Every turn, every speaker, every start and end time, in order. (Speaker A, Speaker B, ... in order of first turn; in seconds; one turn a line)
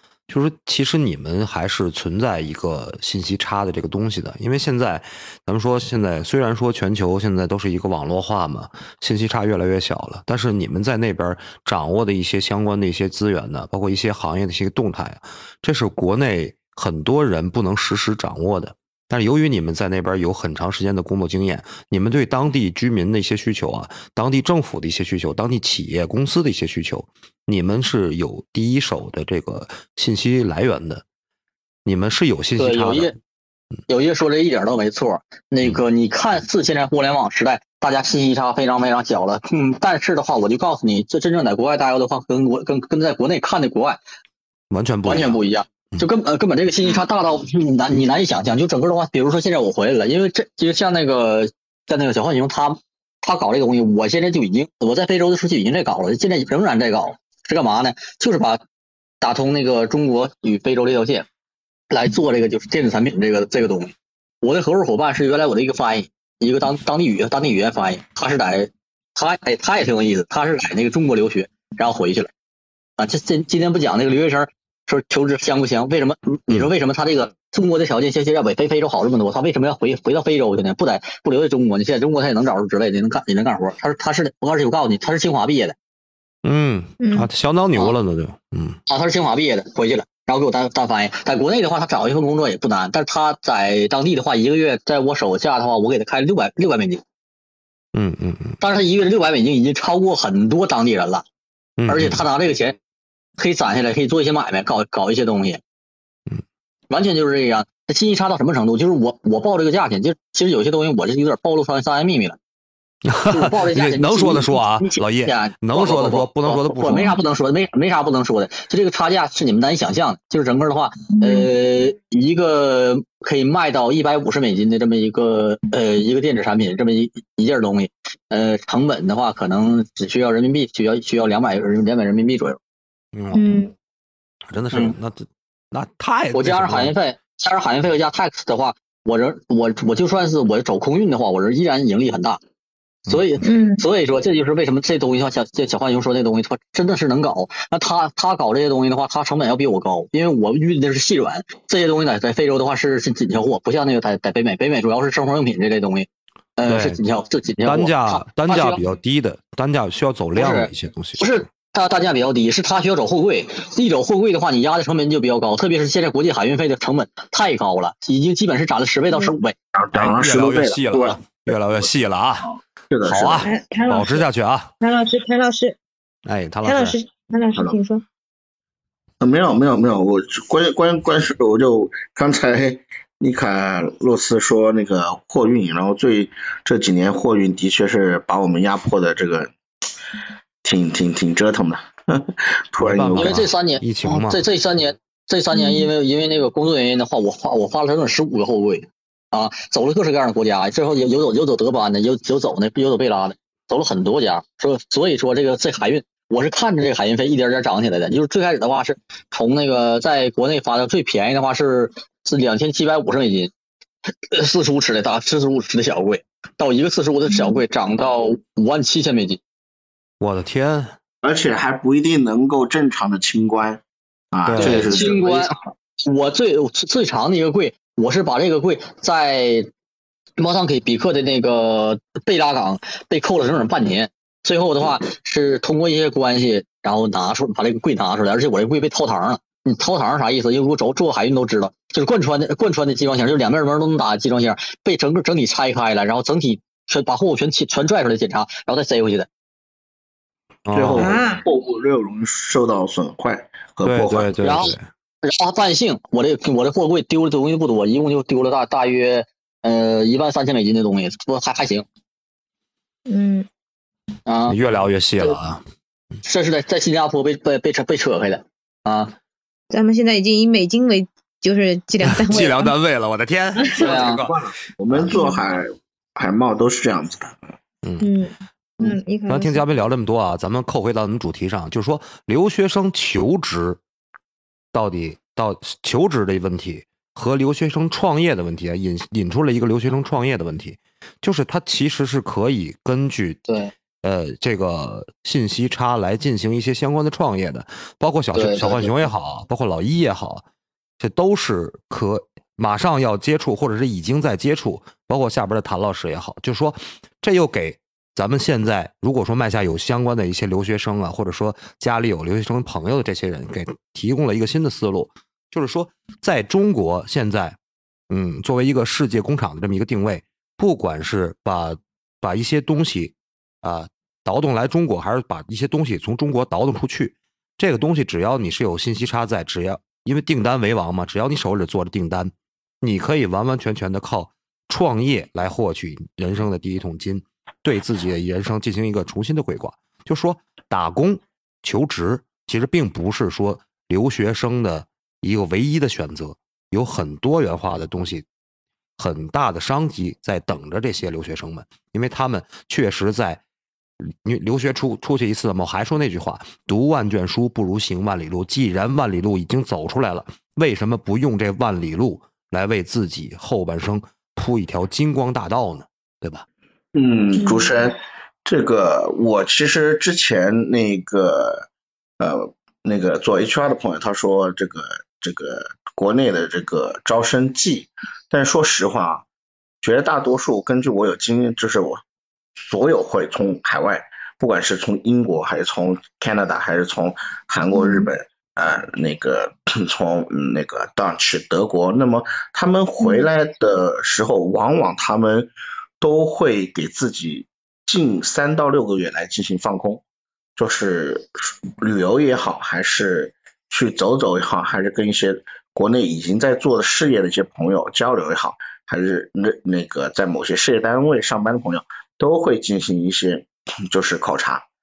Speaker A: 0.3-31.0
Speaker A: 31.8-33.1
Speaker B: 32.6-33.1
Speaker B: 33.9-44.0
Speaker A: 44.7-45.4
Speaker B: 45.0-58.6
Speaker B: 59.2-61.2
Speaker B: 61.9-72.3
Speaker B: 73.0-85.8
Speaker A: 86.4-88.8
Speaker C: 87.0-87.3
Speaker B: 88.9-97.0
Speaker A: 97.9-98.6
Speaker B: 98.6-101.2
Speaker A: 101.8-102.2
Speaker B: 101.9-102.8
Speaker B: 103.4-105.6
Speaker B: 106.9-112.4
Speaker A: 113.1-117.2
Speaker B: 113.3-132.6
Speaker A: 133.1-133.5
Speaker C: 133.3-133.7
Speaker A: 134.5-137.0
Speaker B: 136.3-142.4
Speaker B: 143.1-158.8
Speaker C: 143.4-143.8
Speaker A: 156.7-157.0
Speaker A: 157.6-161.4
Speaker B: 160.3-169.5
Speaker D: 169.7-171.3
Speaker A: 169.9-172.5
Speaker D: 172.9-173.5
Speaker A: 173.0-174.7
Speaker C: 173.4-174.2
Speaker C: 174.8-175.8
Speaker A: 176.2-177.0
Speaker C: 176.6-178.0
Speaker D: 179.2-189.5
Speaker D: 190.6-193.5
Speaker A: 192.8-194.4
Speaker B: 193.1-213.5
Speaker C: 195.5-195.9
Speaker B: 214.3-219.4
Speaker A: 220.2-220.9
Speaker D: 221.2-225.4
Speaker A: 224.4-225.1
Speaker B: 224.6-229.7
Speaker B: 230.4-249.3
Speaker A: 250.6-251.2
Speaker D: 250.7-254.7
Speaker C: 250.9-251.4
Speaker A: 253.8-254.9
Speaker B: 254.4-261.9
Speaker C: 263.1-263.5
Speaker B: 264.2-264.6
Speaker A: 264.5-265.6
Speaker B: 266.2-269.1
Speaker C: 269.7-272.7
Speaker A: 272.0-274.3
Speaker D: 273.8-277.4
Speaker B: 273.8-274.2
Speaker A: 274.9-275.2
Speaker C: 275.1-275.4
Speaker A: 277.8-278.1
Speaker C: 278.0-279.7
Speaker A: 278.8-283.8
Speaker A: 284.7-293.4
Speaker B: 293.5-293.7
Speaker A: 294.0-300.4
Speaker B: 298.3-299.1
Speaker A: 301.0-317.6
Speaker A: 318.1-348.2
Speaker A: 349.0-353.4
Speaker A: 354.0-366.4
Speaker D: 366.9-371.7
Speaker C: 367.4-367.7
Speaker D: 372.2-379.2
Speaker D: 379.8-382.0
Speaker D: 382.6-400.0
Speaker C: 387.7-388.1
Speaker C: 393.0-393.3
Speaker D: 400.6-414.6